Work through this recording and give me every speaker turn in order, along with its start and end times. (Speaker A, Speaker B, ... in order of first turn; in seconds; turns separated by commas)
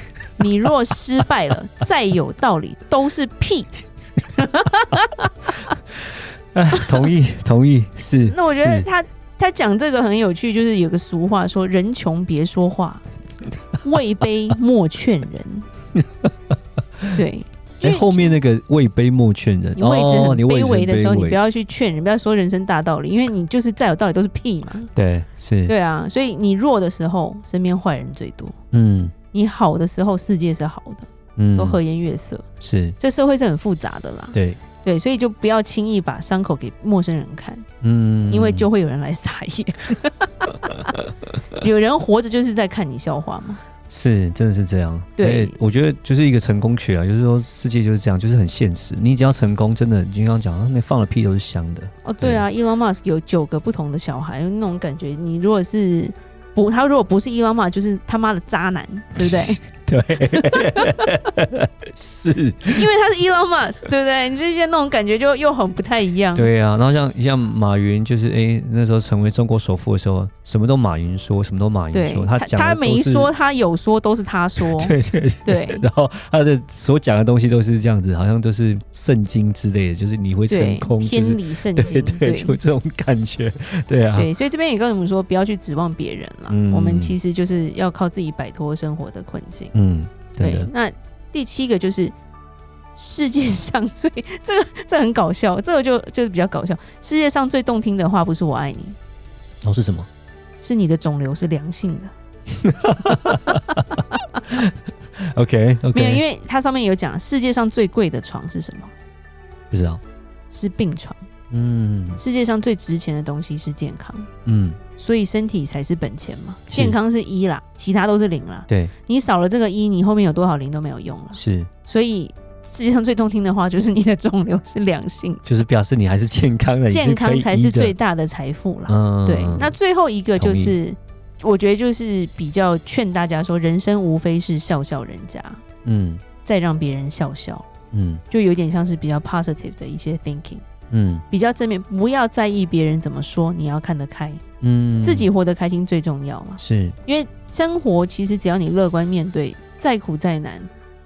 Speaker A: 0.4-5.8, Speaker B: 6.1-8.9, Speaker A: 8.2-13.1, Speaker A: 13.8-15.7, Speaker B: 15.9-16.3, Speaker A: 17.1-18.4, Speaker B: 17.8-21.4, Speaker A: 19.8-24.9, Speaker B: 25.0-25.7, Speaker A: 25.7-28.6, Speaker B: 28.7-29.1, Speaker A: 29.3-32.4, Speaker B: 31.4-31.8, Speaker B: 32.6-33.0, Speaker A: 33.0-37.7, Speaker B: 34.3-34.6, Speaker B: 37.8-38.7, Speaker A: 38.3-41.0, Speaker A: 41.5-43.6, Speaker B: 43.9-52.5, Speaker A: 45.2-45.6, Speaker A: 52.0-59.6, Speaker B: 59.3-62.9, Speaker A: 60.2-61.1, Speaker A: 62.7-66.5, Speaker B: 66.3-73.3, Speaker A: 71.9-75.8, Speaker B: 74.6-84.3, Speaker A: 80.5-82.6, Speaker A: 84.2-89.7, Speaker B: 86.5-87.2, Speaker B: 89.7-90.7, Speaker A: 90.4-92.1, Speaker A: 93.0-99.0, Speaker B: 99.6-100.1, Speaker A: 100.6-102.1, Speaker B: 102.5-103.6, Speaker A: 103.3-104.0, Speaker B: 104.4-106.2, Speaker A: 105.9-108.9, Speaker B: 109.7-110.0, Speaker A: 110.5-111.2, Speaker B: 111.5-112.2, Speaker A: 112.2-114.3, Speaker B: 114.5-114.8, Speaker A: 114.9-125.5, Speaker B: 116.7-117.0, Speaker B: 121.3-121.7, Speaker B: 125.5-128.0, Speaker A: 126.9-135.6, Speaker B: 128.9-129.8, Speaker B: 130.4-130.8, Speaker B: 135.8-136.2, Speaker A: 136.4-137.7, Speaker B: 137.9-138.2, Speaker A: 138.3-140.7, Speaker B: 140.9-141.2, Speaker A: 141.3-144.4, Speaker B: 144.6-145.3, Speaker A: 145.0-150.7, Speaker B: 146.6-147.0